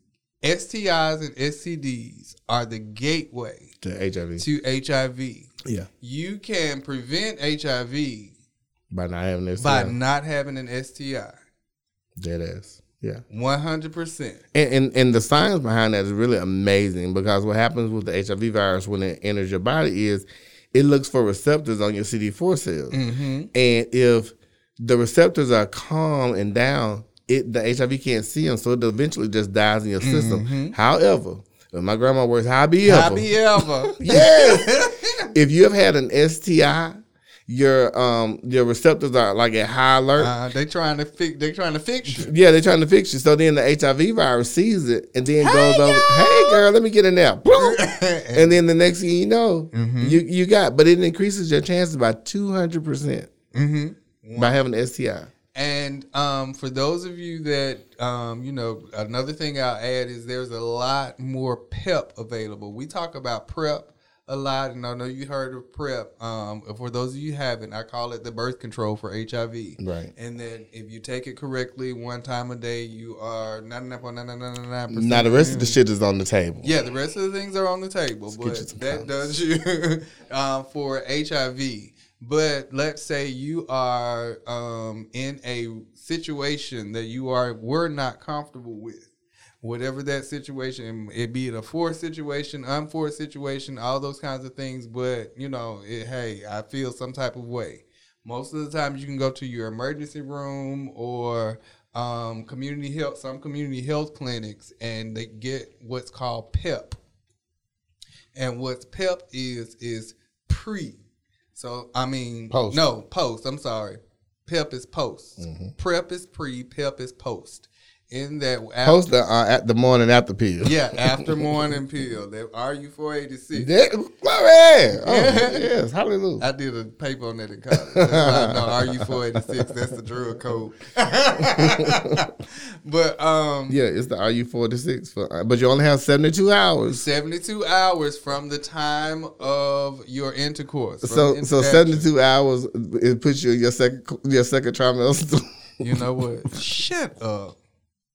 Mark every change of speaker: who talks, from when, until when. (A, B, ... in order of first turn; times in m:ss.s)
0:00.4-0:03.7 A
0:03.8-0:04.4 B
0:04.4-0:08.3 A
0:08.9-0:10.0 B
0:09.6-0:11.4 A
0:12.2-0:13.2 B
0:13.3-0:14.4 A
0:14.5-0:23.0 B
0:22.9-0:23.5 A
0:23.5-0:34.8 B
0:30.0-0:30.8 A
0:32.8-0:35.3 A
0:35.3-0:40.3 B
0:40.2-0:42.3 A
0:42.1-0:47.8 B
0:45.4-0:46.6 A
0:47.5-0:48.6 A
0:48.3-0:53.3 B
0:49.7-0:50.2 A
0:53.5-0:54.6 A
0:54.4-0:55.3 B
0:55.5-1:15.8 A
1:09.8-1:10.1 B
1:14.9-1:16.7 B
1:16.6-1:29.1 A
1:18.3-1:19.3 B
1:29.6-1:47.0 A
1:48.4-1:51.0 A
1:51.5-1:59.1 A
1:52.5-1:52.8 B
1:55.4-1:55.7 B
1:58.8-2:01.5 B
2:00.6-2:03.7 A
2:03.5-2:06.4 B
2:05.0-2:05.7 A
2:06.4-2:13.8 A
2:07.9-2:09.2 B
2:11.6-2:12.2 B
2:13.7-2:17.0 B
2:16.9-2:22.1 A
2:21.0-2:26.0 B
2:25.8-2:27.6 A